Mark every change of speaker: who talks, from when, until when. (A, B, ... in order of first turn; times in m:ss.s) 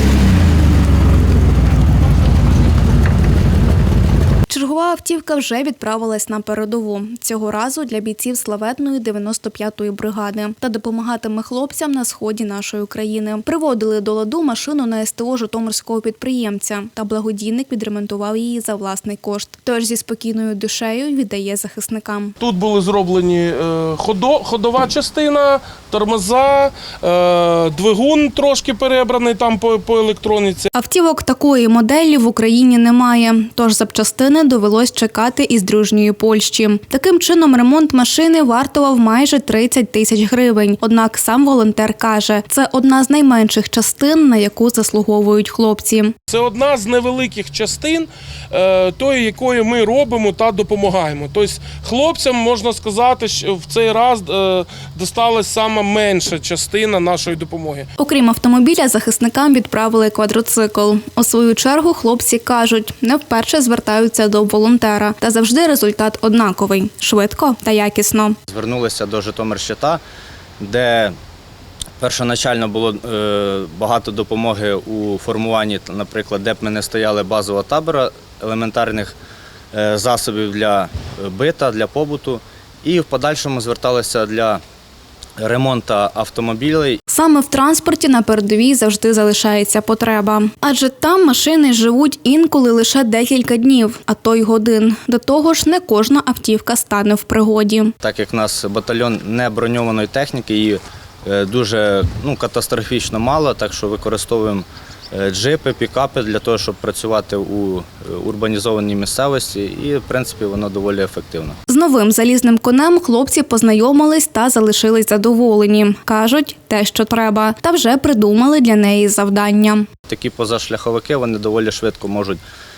0:04.5-0:22.3 A
0:22.4-0:30.7 B
0:30.7-0:46.1 A
0:46.3-0:57.9 B
0:58.0-1:08.4 A
1:08.5-1:10.0 C
1:10.6-1:11.1 C
1:12.0-1:19.2 C
1:19.7-1:24.6 C
1:25.4-1:27.0 C
1:27.1-1:37.9 A
1:38.0-1:51.6 C
1:51.7-1:59.9 A
2:00.1-2:02.4 C